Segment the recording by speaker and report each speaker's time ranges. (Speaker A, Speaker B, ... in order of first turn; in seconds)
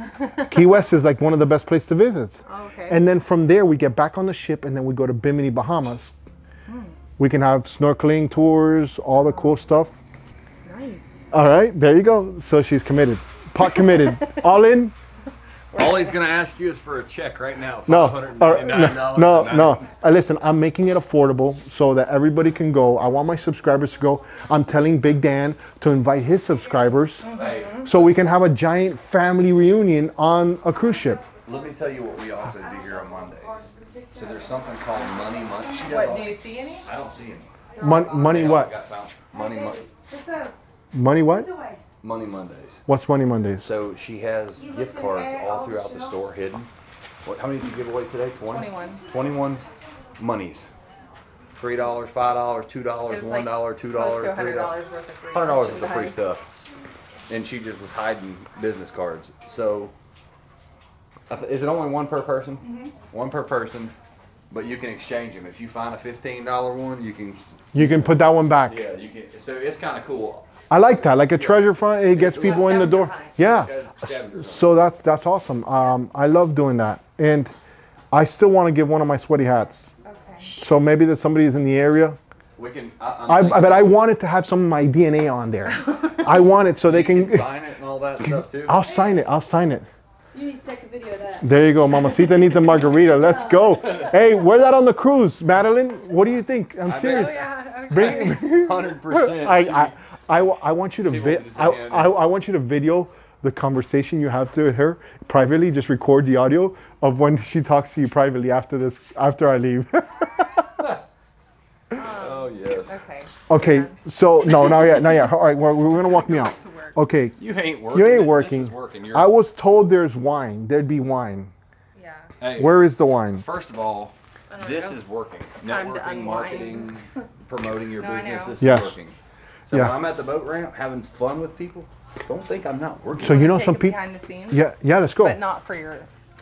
Speaker A: 0.2-0.5, 2.5-3.0, 6.7-6.9, 10.7-11.2, 13.8-14.5, 15.7-16.2, 27.2-27.9, 35.6-36.9, 37.8-38.6, 40.0-40.5, 48.5-49.0, 53.1-56.2, 72.3-73.4, 80.0-80.5, 97.0-98.6, 111.9-114.0, 116.0-117.0, 122.0-122.3, 124.5-125.0, 125.6-126.9, 128.0-128.6, 133.2-136.1
Speaker B: 0.4-6.2, 7.2-10.0, 11.3-14.9, 17.9-27.3, 27.8-31.2, 37.8-38.7, 40.9-41.5, 42.9-43.7, 67.7-68.9, 70.7-77.5, 78.1-80.0, 80.5-82.2, 83.3-87.5, 88.2-89.9, 91.4-110.7, 113.5-117.4, 117.9-121.5, 122.5-123.5, 128.6-128.9, 133.2-134.0, 134.5-135.4
Speaker C: 15.7-19.9, 27.3-28.3, 31.4-37.5, 38.1-39.8, 42.0-42.8, 43.6-46.7, 47.2-49.6, 50.2-50.7, 51.6-54.8, 55.3-56.4, 57.3-59.9, 61.3-64.0, 64.5-70.5, 71.1-74.7, 82.6-84.0, 86.8-88.8, 92.5-94.2, 96.9-100.0, 101.0-102.2, 112.0-113.0, 117.4-119.3, 122.4-129.2, 129.7-133.5
Speaker D: 33.5-34.8, 39.4-39.7, 41.5-41.8, 44.7-46.1, 90.3-91.5, 93.2-94.1